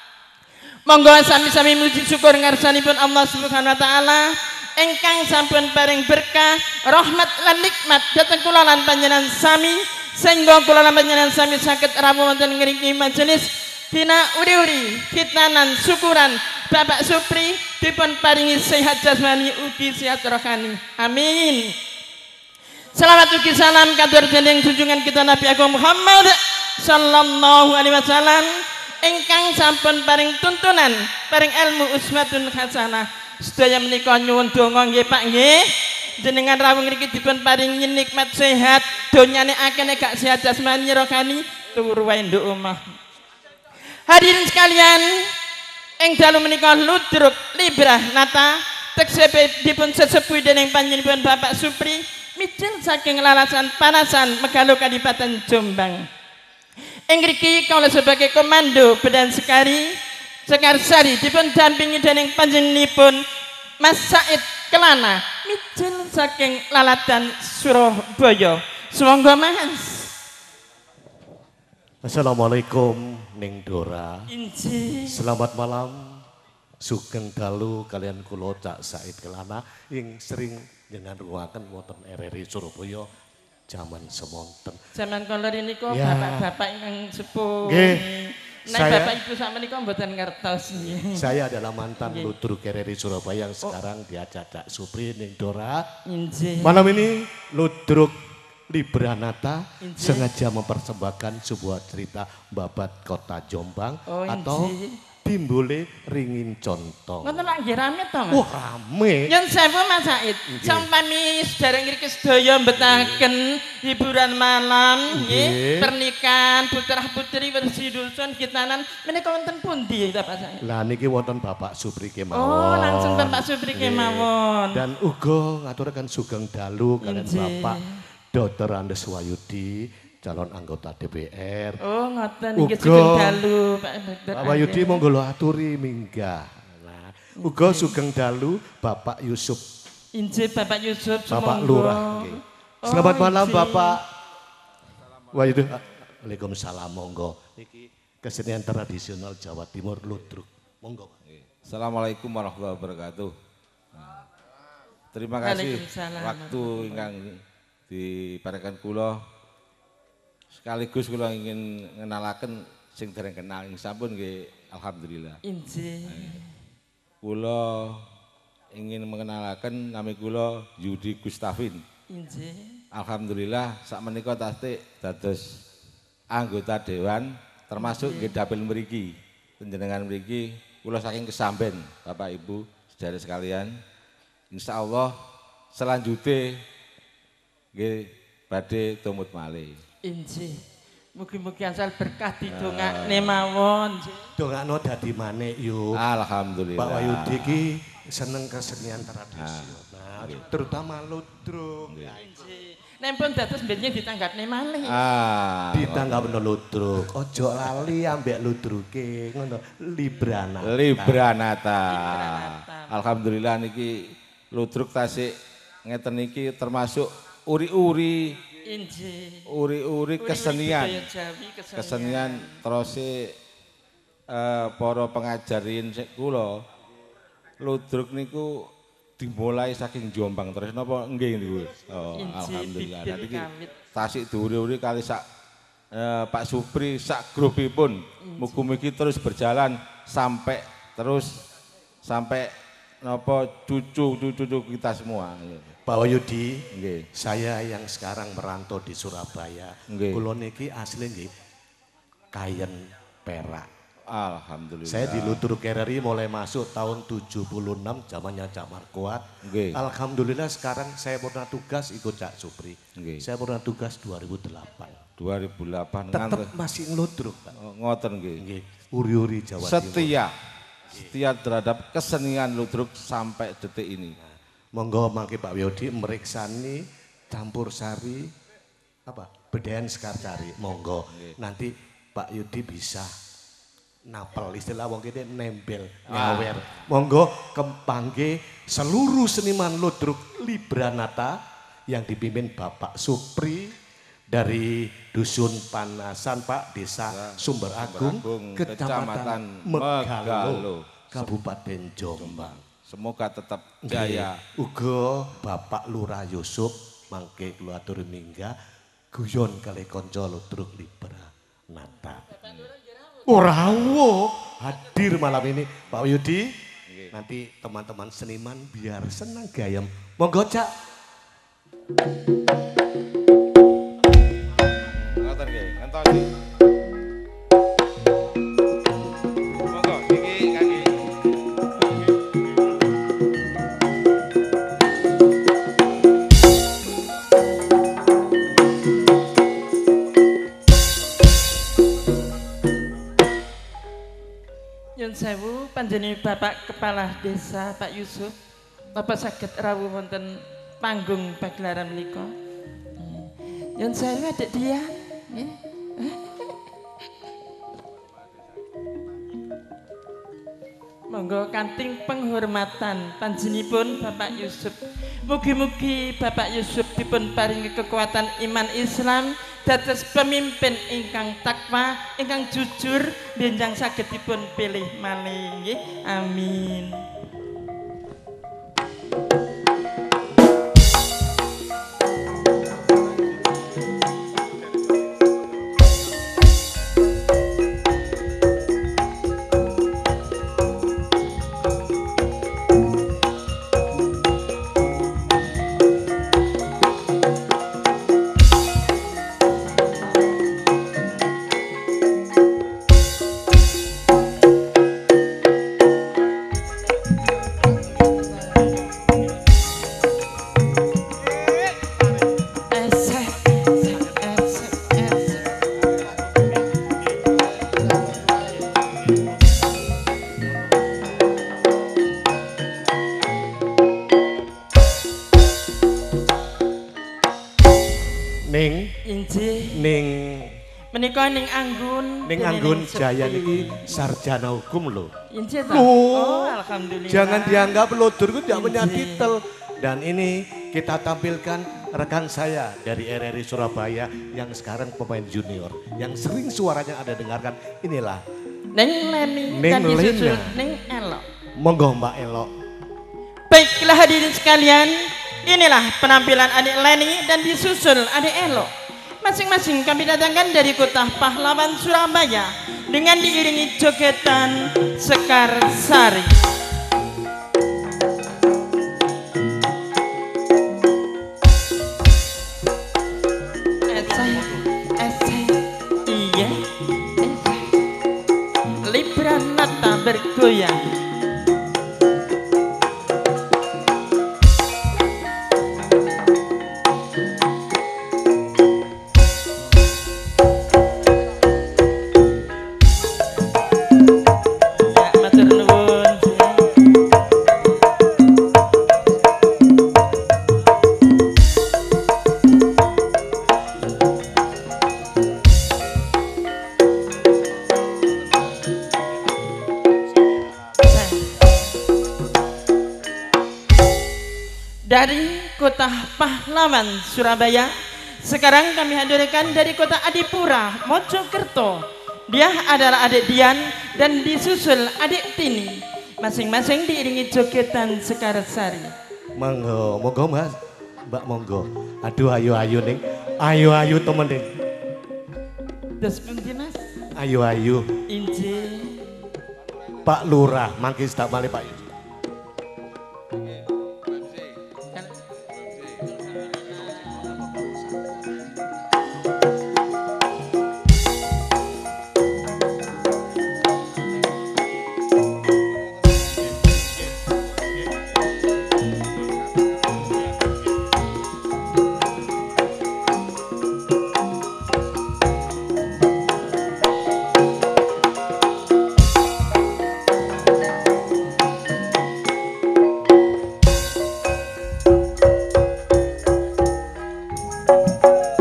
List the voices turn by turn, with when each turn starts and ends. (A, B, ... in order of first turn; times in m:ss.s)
0:00.9-0:21.7 A
0:22.9-0:42.8 A
0:44.1-0:45.3 A
0:46.0-0:56.1 A
0:57.1-1:03.2 A
1:03.8-1:10.1 A
1:12.0-1:14.3 B
1:14.3-1:15.2 A
1:15.1-1:16.2 B
1:16.8-1:23.1 B
1:23.7-1:24.8 B
1:24.9-1:31.3 A
1:25.9-1:26.5 B
1:27.6-1:28.1 B
1:28.7-1:29.2 B
1:31.0-1:35.8 B
1:32.0-1:32.3 A
1:36.0-1:37.0 A
1:36.6-1:38.2 B
1:38.7-1:47.4 B
1:39.8-1:40.3 A
1:44.1-1:45.0 A
1:47.2-1:48.4 A
1:48.3-1:49.3 B
1:49.3-2:00.6 A
1:50.5-1:50.9 B
1:52.8-1:53.2 B
1:55.1-1:55.9 B
2:00.6-2:07.8 B
2:02.3-2:04.8 A
2:07.0-2:08.0 A
2:08.3-2:11.8 B
2:11.8-2:15.0 A
2:12.6-2:13.4 B
2:14.3-2:19.6 B
2:17.4-2:18.0 A
2:20.1-2:24.0 A
2:21.3-2:24.1 B
2:25.3-2:31.1 B
2:31.3-2:33.3 C
2:35.1-2:39.2 C
2:35.4-2:37.1 A
2:40.6-2:45.4 C
2:45.4-2:46.5 A
2:46.1-2:46.4 C
2:47.2-2:48.0 C
2:48.7-2:51.8 C
2:52.1-2:52.8 A
2:52.9-2:55.6 C
2:56.3-3:03.7 C
2:57.8-2:58.4 A
3:04.5-3:05.1 C
3:05.7-3:06.6 C
3:07.7-3:09.8 C
3:10.0-3:14.2 A
3:12.5-3:13.4 C
3:14.4-3:16.0 B
3:15.9-3:17.6 C
3:16.8-3:22.2 B
3:19.4-3:20.4 C
3:21.9-3:22.1 C
3:22.1-3:25.0 A
3:24.8-3:26.4 C
3:25.7-3:31.2 B
3:30.6-3:35.3 C
3:31.9-3:32.9 A
3:35.8-3:38.4 C
3:38.6-3:39.4 A
3:39.5-3:41.0 C
3:40.2-3:42.6 A
3:41.8-3:43.3 C
3:44.3-3:46.6 C
3:47.6-3:55.2 C
3:52.1-3:53.7 A
3:55.9-4:01.4 C
3:58.2-3:58.6 A
4:02.0-4:02.5 C
4:03.0-4:05.8 C
4:05.8-4:11.3 B
4:06.7-4:07.0 C
4:09.9-4:10.2 C
4:12.3-4:13.7 B
4:14.1-4:15.4 C
4:14.8-4:25.0 B
4:19.4-4:19.8 C
4:23.0-4:23.2 C
4:25.2-4:26.5 C
4:26.1-4:27.5 B
4:27.5-4:28.4 C
4:28.4-4:30.2 B
4:29.6-4:30.3 C
4:30.9-4:34.1 C
4:34.2-4:38.3 B
4:39.1-4:43.1 B
4:44.1-4:51.4 B
4:46.1-4:46.6 C
4:51.9-4:53.8 B
4:54.3-5:02.6 B
4:57.1-5:01.3 C
5:02.2-5:04.4 C
5:03.8-5:08.6 B
5:09.1-5:12.4 B
5:12.4-5:12.7 C
5:13.2-5:16.6 B
5:17.1-5:20.7 B
5:24.8-5:26.3 C
5:29.7-5:31.0 C
5:45.0-5:48.3 A
5:48.9-5:52.3 A
5:53.0-5:56.4 A
6:01.1-6:17.0 A
6:52.7-6:55.4 A
7:08.4-7:08.9 B
7:09.0-7:09.8 A
7:09.7-7:10.6 B
7:10.9-7:13.9 A
7:12.2-7:15.1 B
7:15.3-7:17.8 A
7:15.7-7:16.6 B
7:17.1-7:28.2 B
7:18.5-7:19.3 A
7:28.7-7:31.2 A
7:29.5-7:30.6 B
7:31.6-7:32.5 B
7:33.5-7:46.4 A
7:53.9-7:56.6 A
7:57.2-7:57.8 A
7:58.8-8:00.8 A
8:14.9-8:16.7 A
8:30.8-8:31.4 A
8:34.8-8:48.9 A
8:49.4-8:54.6 B
8:56.0-8:56.9 A
8:57.1-8:57.9 B
8:58.1-8:59.0 A
9:00.0-9:01.9 B